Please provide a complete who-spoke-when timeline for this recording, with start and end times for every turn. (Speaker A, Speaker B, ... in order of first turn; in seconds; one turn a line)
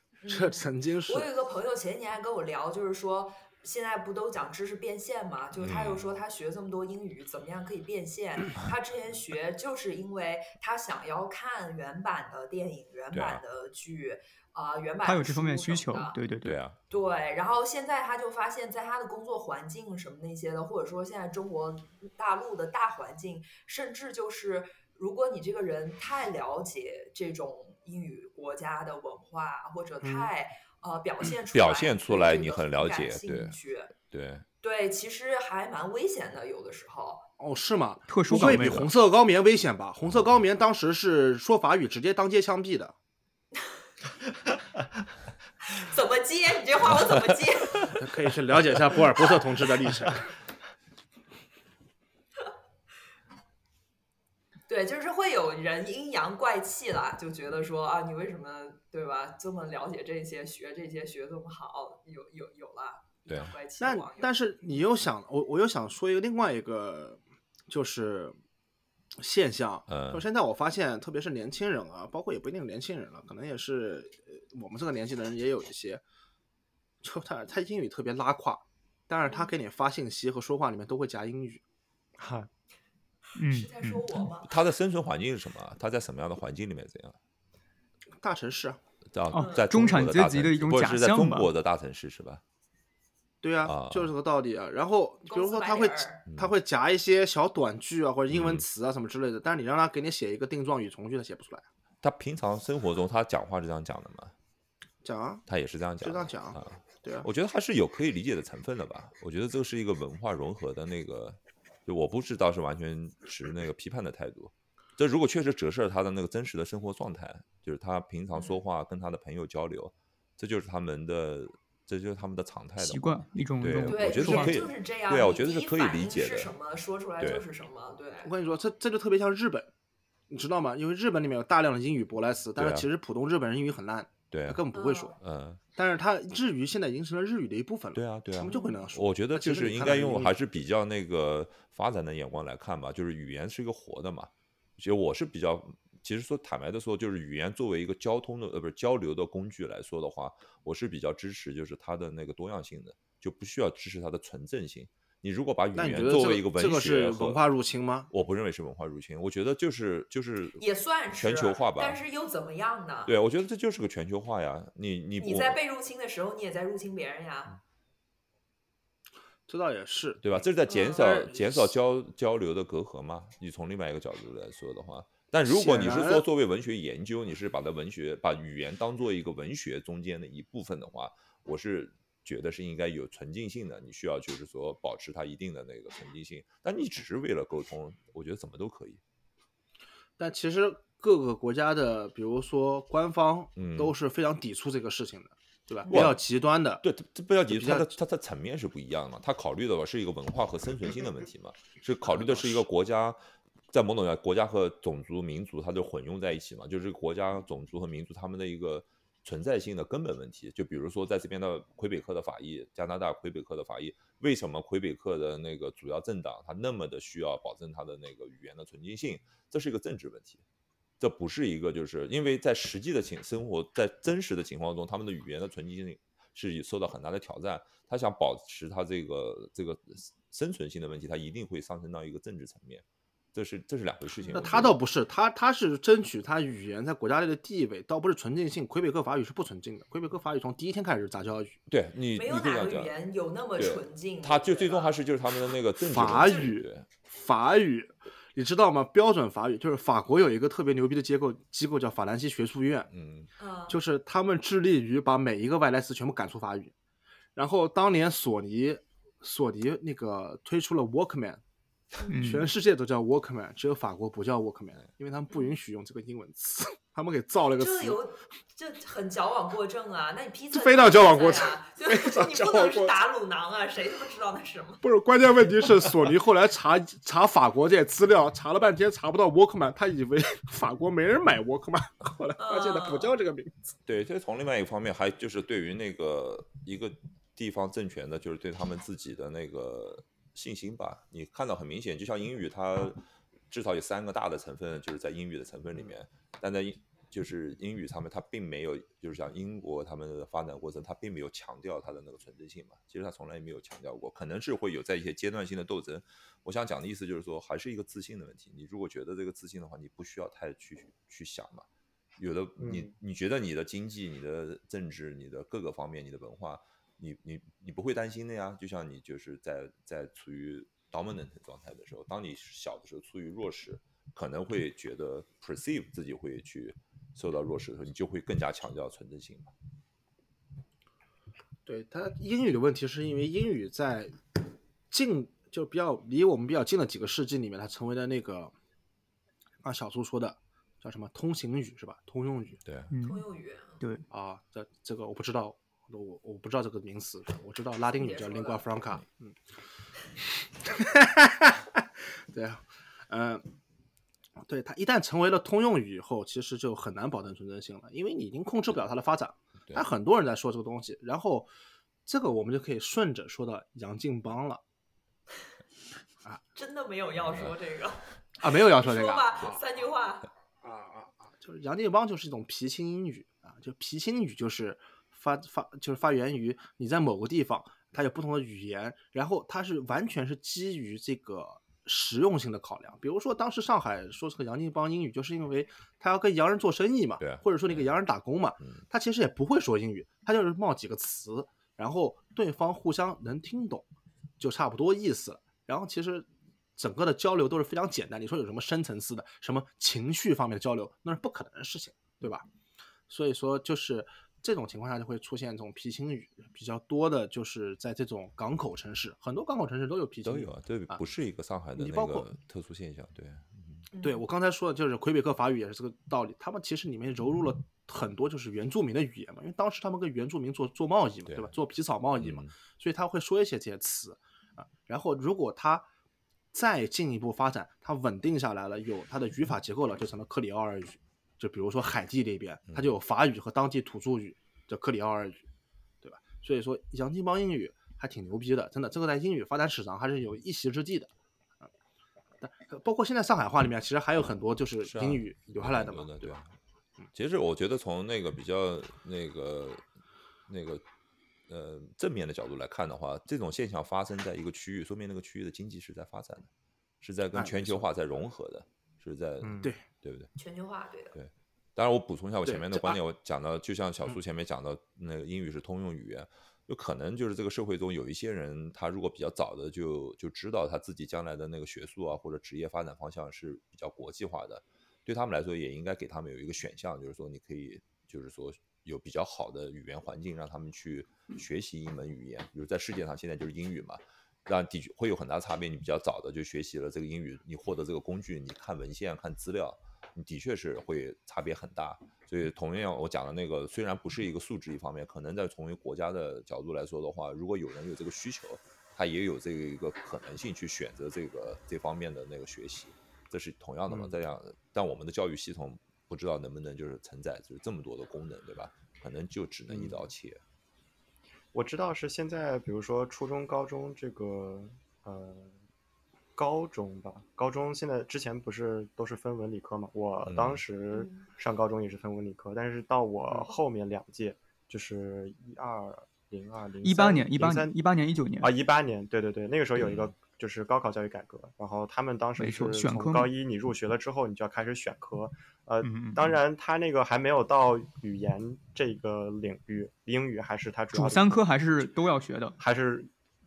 Speaker A: 0.2-16.2
Speaker B: 0.3-1.3
Speaker C: 5.6-6.0
Speaker C: 13.1-13.4
Speaker D: 15.0-16.6
Speaker C: 16.4-16.8
Speaker A: 16.9-33.9
Speaker B: 30.0-30.3
Speaker C: 31.5-34.4
Speaker A: 34.6-37.3
Speaker B: 37.4-42.9
Speaker D: 38.1-38.9
Speaker C: 38.3-38.9
Speaker A: 45.6-48.0
Speaker B: 48.0-50.3
Speaker A: 54.7-64.3
Speaker C: 63.3-63.5
Speaker B: 63.8-68.3
Speaker B: 69.2-76.0
Speaker C: 69.9-70.2
Speaker B: 77.0-81.6
Speaker E: 82.2-82.5
Speaker D: 83.4-84.2
Speaker A: 83.4-84.6
Speaker C: 84.5-87.2
Speaker B: 88.2-88.8
Speaker C: 89.1-92.4
Speaker D: 89.3-91.5
Speaker A: 89.3-89.7
Speaker B: 93.4-101.6
Speaker C: 93.6-94.1
Speaker A: 95.3-96.3
Speaker C: 98.3-98.7
Speaker C: 102.0-104.3
Speaker B: 105.0-105.4
Speaker C: 105.5-126.5
Speaker B: 106.0-107.2
Speaker A: 118.3-118.6
Speaker D: 122.8-124.6
Speaker A: 123.8-128.3
Speaker C: 127.2-127.4
Speaker B: 128.2-129.7
Speaker B: 130.3-135.1
Speaker C: 132.6-132.9
Speaker C: 134.3-134.6
Speaker A: 134.7-135.2
Speaker C: 135.2-135.6
Speaker B: 135.8-140.3
Speaker C: 137.9-157.4
Speaker A: 138.4-138.8
Speaker B: 155.7-158.1
Speaker C: 158.1-160.6
Speaker A: 160.6-163.1
Speaker C: 161.1-162.0
Speaker C: 163.1-165.6
Speaker A: 165.2-167.6
Speaker B: 169.5-170.4
Speaker C: 170.2-189.0
Speaker A: 170.7-171.1
Speaker B: 170.9-171.7
Speaker B: 175.5-176.2
Speaker B: 190.2-196.8
Speaker C: 193.6-193.9
Speaker C: 195.9-196.2
Speaker C: 196.8-220.4
Speaker B: 197.5-197.9
Speaker B: 202.0-202.6
Speaker C: 221.0-234.8
Speaker A: 234.2-234.5
Speaker B: 234.3-241.5
Speaker C: 241.7-242.9
Speaker A: 242.1-245.0
Speaker C: 243.6-246.9
Speaker B: 245.8-252.9
Speaker A: 246.1-246.5
Speaker C: 252.9-253.3
Speaker A: 253.4-253.8
Speaker B: 253.7-256.7
Speaker B: 257.4-261.4
Speaker D: 262.1-262.5
Speaker B: 262.1-268.0
Speaker A: 267.6-274.8
Speaker B: 270.5-273.0
Speaker B: 274.8-283.5
Speaker A: 282.4-283.1
Speaker C: 283.9-311.6
Speaker C: 312.2-329.5
Speaker E: 312.6-312.9
Speaker B: 331.6-334.2
Speaker B: 334.9-338.5
Speaker B: 339.6-342.6
Speaker C: 342.6-342.9
Speaker D: 342.9-343.2
Speaker A: 343.0-343.8
Speaker B: 344.1-349.4
Speaker A: 348.0-348.7
Speaker B: 350.6-353.4
Speaker B: 354.4-361.5
Speaker B: 362.1-364.6
Speaker A: 366.5-370.3
Speaker C: 367.2-367.5
Speaker B: 368.4-369.6
Speaker B: 370.6-393.9
Speaker C: 387.2-387.9
Speaker C: 388.6-388.9
Speaker B: 394.4-402.4
Speaker B: 403.1-411.0
Speaker C: 410.2-413.9
Speaker B: 411.8-412.3
Speaker A: 413.9-414.2
Speaker B: 414.0-425.9
Speaker C: 421.2-421.5
Speaker C: 422.2-422.5
Speaker B: 426.5-435.4
Speaker B: 436.0-441.1
Speaker B: 442.4-446.4
Speaker C: 444.8-446.5
Speaker C: 447.1-449.8
Speaker C: 450.5-450.8
Speaker C: 451.5-456.5
Speaker C: 457.0-460.3
Speaker B: 457.3-457.9
Speaker B: 459.4-459.8
Speaker A: 460.4-461.1
Speaker C: 461.1-510.4
Speaker B: 462.4-463.0
Speaker E: 511.5-515.5
Speaker E: 516.3-527.8
Speaker C: 520.2-520.6
Speaker D: 526.8-528.5
Speaker E: 528.4-541.4
Speaker C: 529.8-530.1
Speaker D: 532.4-533.3
Speaker D: 535.8-536.4
Speaker D: 540.9-542.5
Speaker E: 542.6-543.1